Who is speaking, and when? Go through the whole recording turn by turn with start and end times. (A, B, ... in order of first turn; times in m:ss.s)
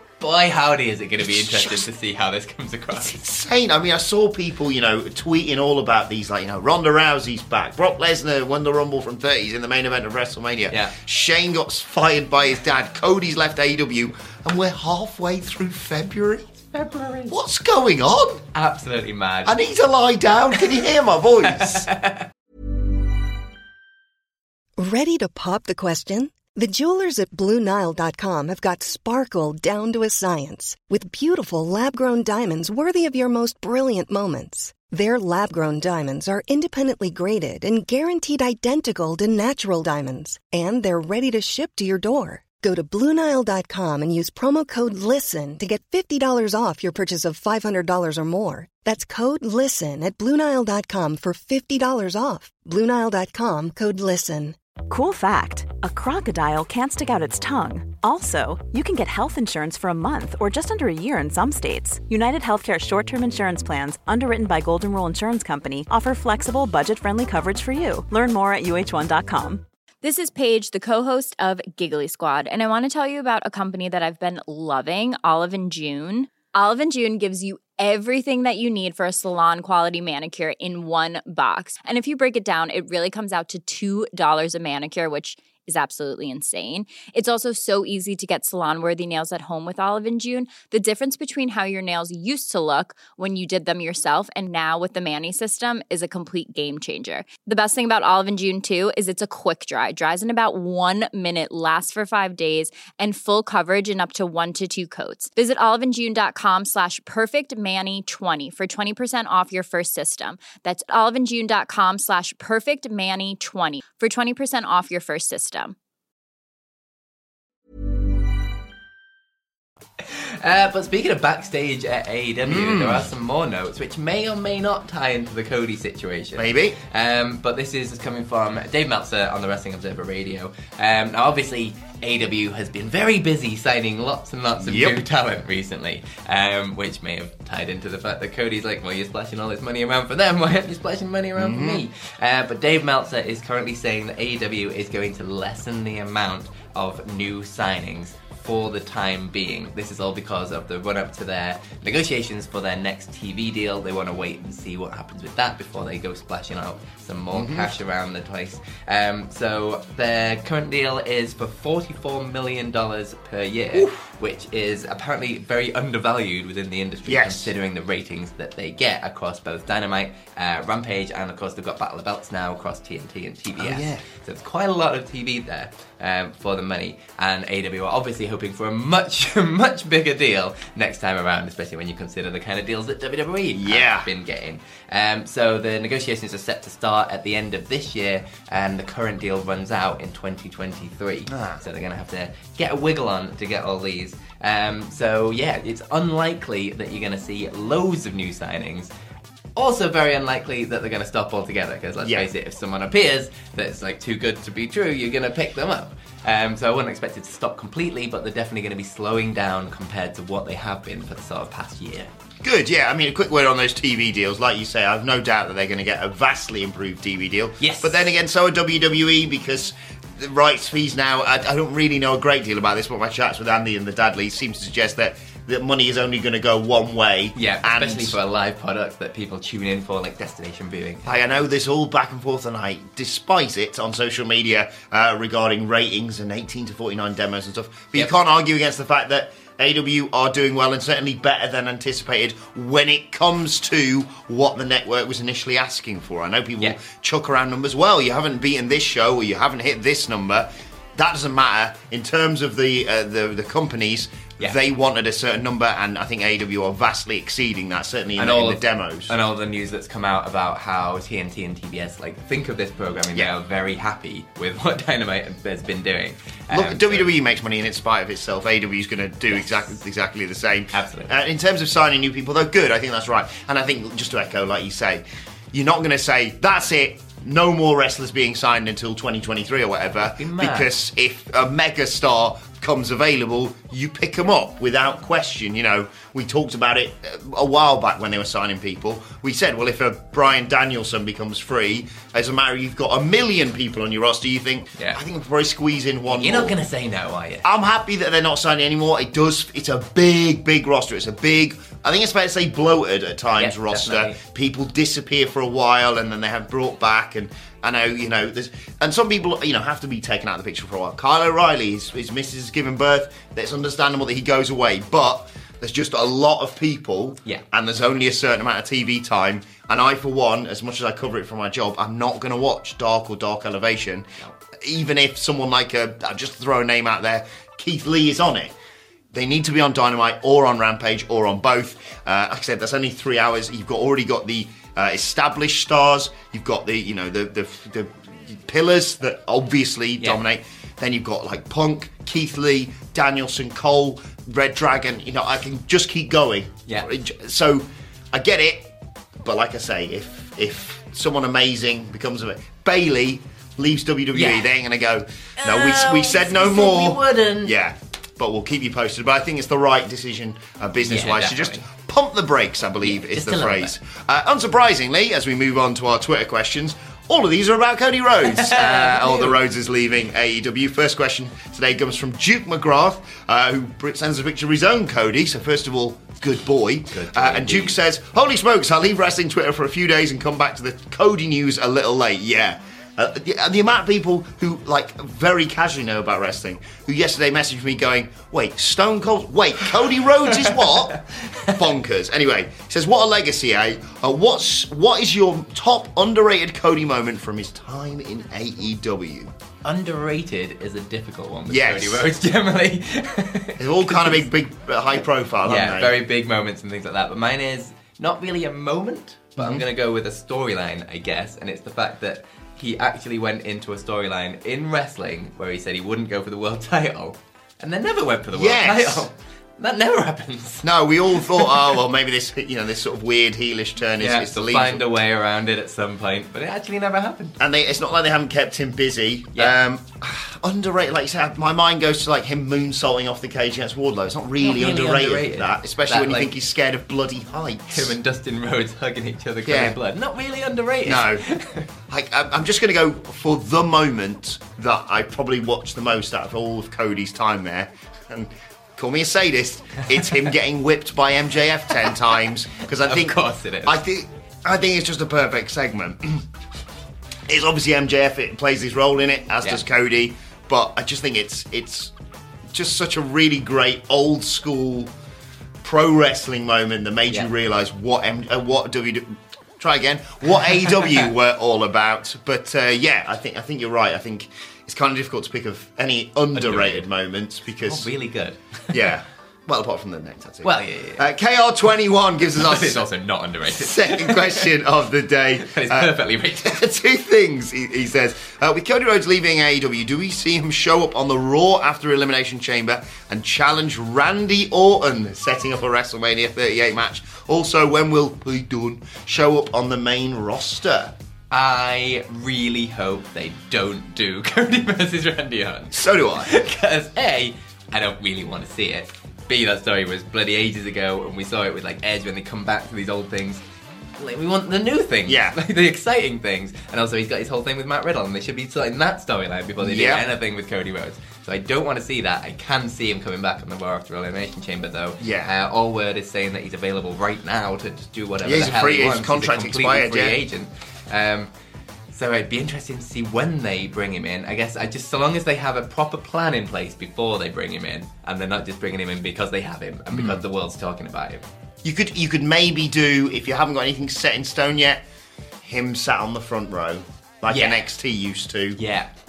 0:00.2-0:03.2 A
0:01.2-0:01.8 B
0:03.0-0:16.6 B
0:10.7-0:10.9 A
0:16.7-0:17.3 A
0:17.3-0:18.4 B
0:18.5-0:19.6 A
0:19.4-0:21.9 B
0:20.6-0:20.8 A
0:21.4-0:22.3 A
0:24.8-0:54.6 C
0:54.9-1:09.6 D
1:10.0-1:55.8 E
2:00.0-3:18.9 A
2:02.4-2:03.1 B
2:06.4-2:06.8 B
2:14.6-2:15.0 B
2:21.4-2:21.8 B
2:37.3-2:37.7 B
2:47.1-2:47.5 B
2:53.6-2:54.0 B
3:03.5-3:04.1 B
3:11.3-3:11.6 B
3:19.6-3:32.1 A
3:32.4-3:48.2 B
3:37.6-3:38.1 A
3:47.3-3:51.0 A
3:51.0-4:19.2 B
4:18.2-4:27.1 A
4:26.5-4:56.6 B
4:29.3-4:29.7 A
4:30.7-4:31.1 A
4:40.2-4:40.7 A
4:56.1-4:57.4 A
4:57.4-5:24.1 B
5:03.4-5:04.2 A
5:24.6-5:28.5 B
5:29.1-5:48.7 B
5:49.2-6:31.0 B
5:54.1-5:54.5 A
5:55.4-5:57.5 A
6:00.8-6:01.6 A
6:02.8-6:03.7 A
6:08.2-6:09.4 A
6:16.9-6:17.8 A
6:30.5-6:31.5 A
6:31.5-6:39.3 B
6:39.6-6:44.2 A
6:41.5-6:42.0 B
6:43.6-6:45.9 B
6:45.4-7:01.8 A
6:49.4-6:49.6 B
6:58.3-6:59.0 B
7:00.6-7:04.8 B
7:04.0-7:07.4 A
7:07.4-7:17.9 B
7:14.4-7:16.3 A
7:17.7-7:21.7 A
7:19.5-7:19.8 B
7:20.8-7:21.2 B
7:21.9-7:36.2 B
7:32.8-7:33.8 A
7:37.3-7:41.9 B
7:42.5-7:44.9 B
7:45.6-7:57.8 B
7:56.3-7:56.8 A
7:57.6-7:58.9 A
7:58.7-8:02.8 B
8:00.4-8:01.1 A
8:02.3-8:04.5 A
8:03.5-8:05.9 B
8:05.4-8:06.6 A
8:06.4-8:20.9 B
8:21.3-8:33.4 A
8:25.7-8:26.3 B
8:34.0-8:51.3 A
8:35.0-8:35.4 B
8:39.6-8:40.0 B
8:45.0-8:45.3 B
8:48.2-8:50.2 B
8:51.9-9:01.2 A
8:59.9-9:00.2 B
9:01.6-9:04.8 B
9:05.4-9:08.6 B
9:07.3-9:07.7 A
9:08.6-9:08.9 A